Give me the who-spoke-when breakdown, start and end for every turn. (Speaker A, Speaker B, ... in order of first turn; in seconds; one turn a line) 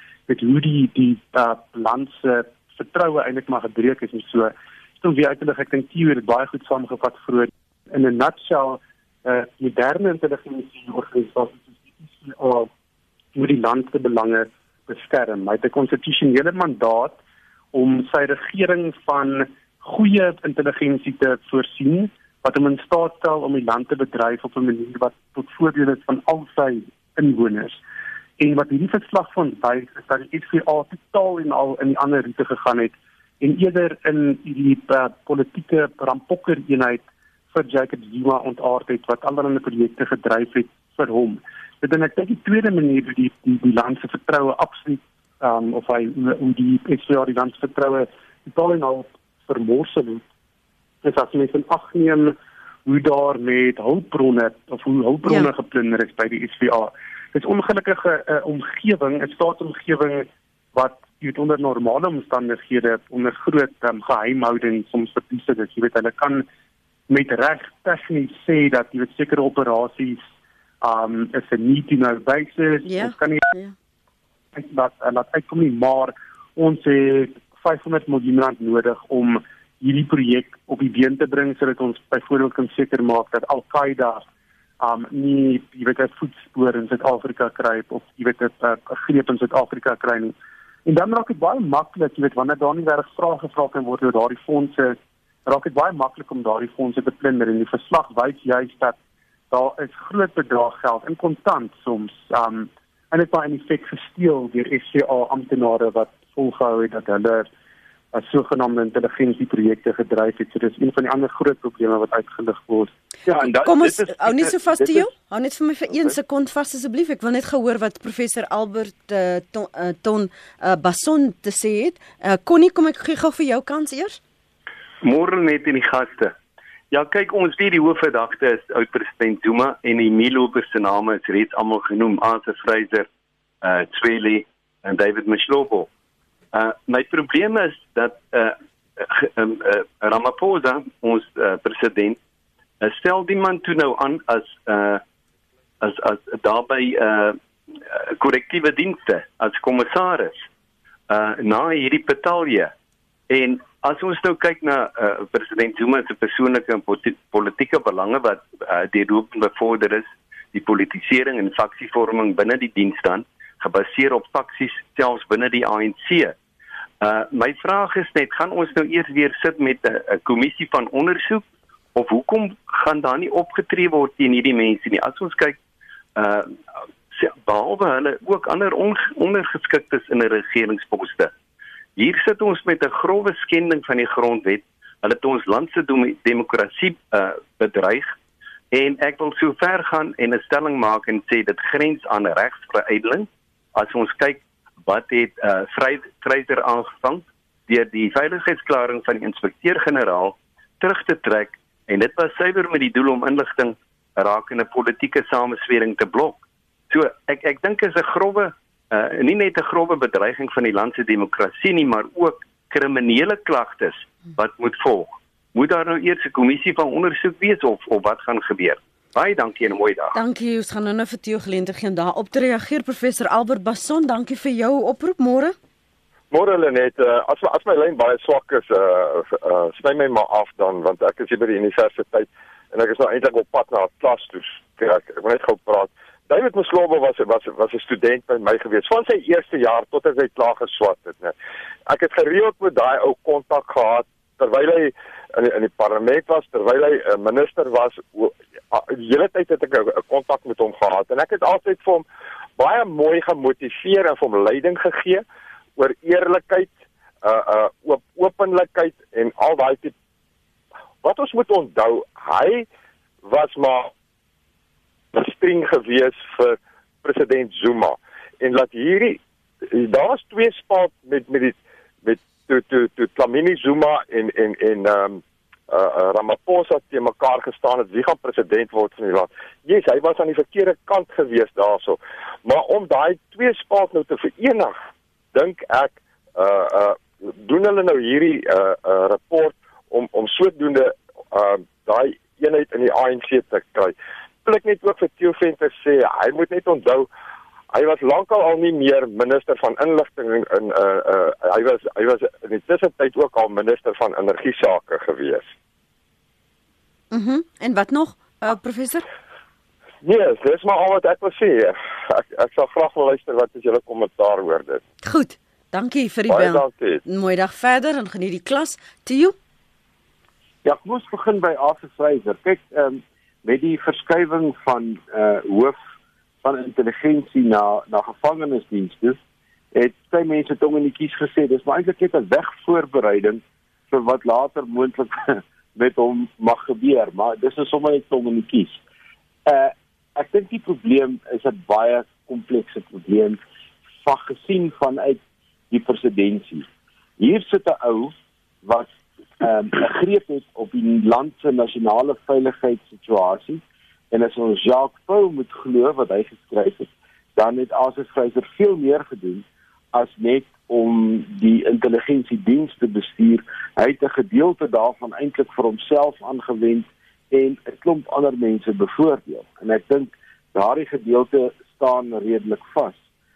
Speaker A: 0.3-12.7
Speaker A: 13.3-17.2
Speaker A: 17.7-27.8
Speaker A: 28.4-50.2
Speaker A: 51.0-66.5
Speaker B: 55.2-55.5
Speaker A: 67.1-70.2
Speaker A: 70.8-73.5
Speaker B: 72.9-73.7
Speaker A: 74.5-84.2
Speaker A: 84.8-90.3
Speaker A: 90.8-99.0
Speaker A: 99.5-107.5
Speaker A: 108.1-112.9
Speaker C: 113.2-115.1
Speaker B: 113.6-124.2
Speaker D: 125.0-126.3
Speaker D: 126.9-133.1
Speaker D: 133.6-135.9
Speaker D: 136.5-142.2
Speaker D: 142.8-145.0
Speaker D: 145.8-147.4
Speaker D: 147.9-150.4
Speaker D: 151.1-152.7
Speaker D: 153.3-166.3
Speaker D: 167.0-175.6
Speaker D: 176.2-176.6
Speaker D: 177.1-181.3
Speaker D: 182.0-188.2
Speaker D: 188.7-220.2
Speaker B: 220.1-225.6
Speaker E: 226.3-241.3
Speaker E: 241.9-252.1
Speaker E: 252.6-255.2
Speaker E: 255.8-256.7
Speaker E: 257.2-259.9
Speaker E: 261.0-262.7
Speaker E: 263.2-263.9
Speaker E: 265.1-284.8
Speaker E: 285.3-297.1
Speaker E: 297.7-305.5
Speaker B: 307.1-309.0
Speaker E: 310.0-314.8
Speaker B: 315.0-319.4
Speaker E: 316.3-317.0
Speaker C: 320.6-325.8
Speaker C: 326.4-329.2
Speaker C: 329.7-338.8
Speaker C: 339.5-343.4
Speaker C: 344.0-346.7
Speaker C: 347.2-373.0